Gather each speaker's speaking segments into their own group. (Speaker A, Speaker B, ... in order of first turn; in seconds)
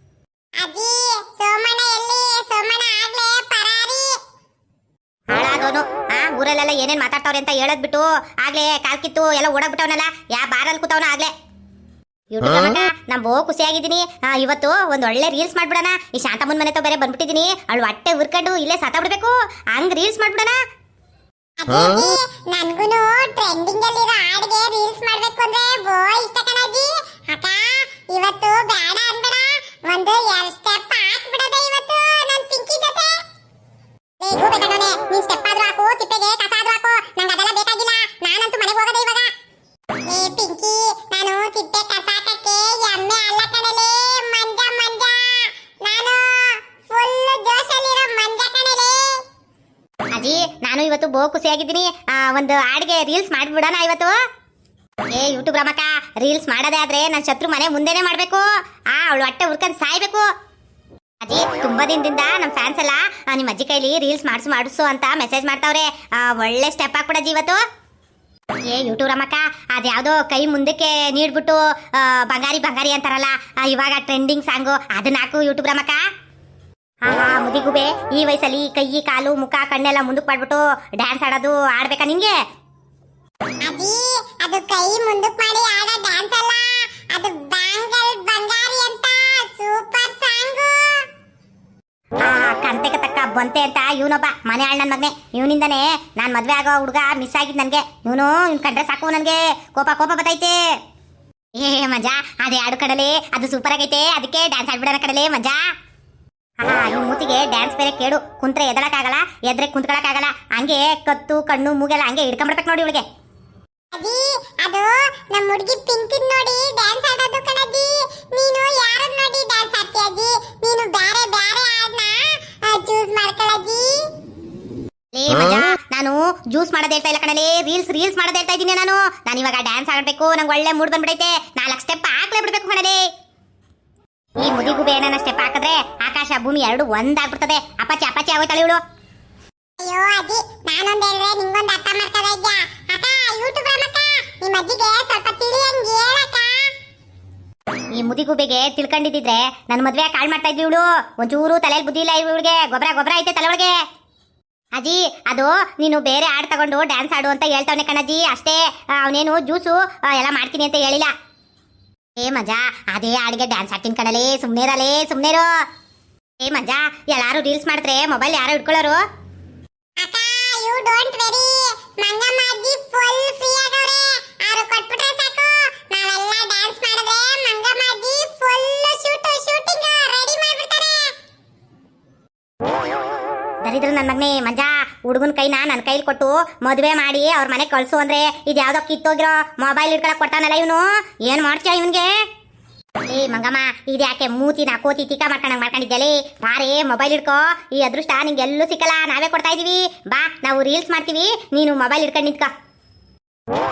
Speaker A: 0.6-4.2, 21.6-33.2, 34.2-39.3, 40.0-49.2, 83.6-91.0, 113.9-124.1, 139.8-146.7, 170.0-181.1
Speaker B: 5.3-11.3, 12.3-20.6, 50.1-54.1, 55.1-60.2, 61.2-67.6, 68.7-76.0, 77.0-82.3, 92.2-100.5, 101.5-105.6, 106.6-113.0, 125.1-133.0, 134.4-138.8, 148.0-153.7, 154.8-161.1, 162.2-165.4, 166.4-169.0, 183.6-192.1, 193.1-202.5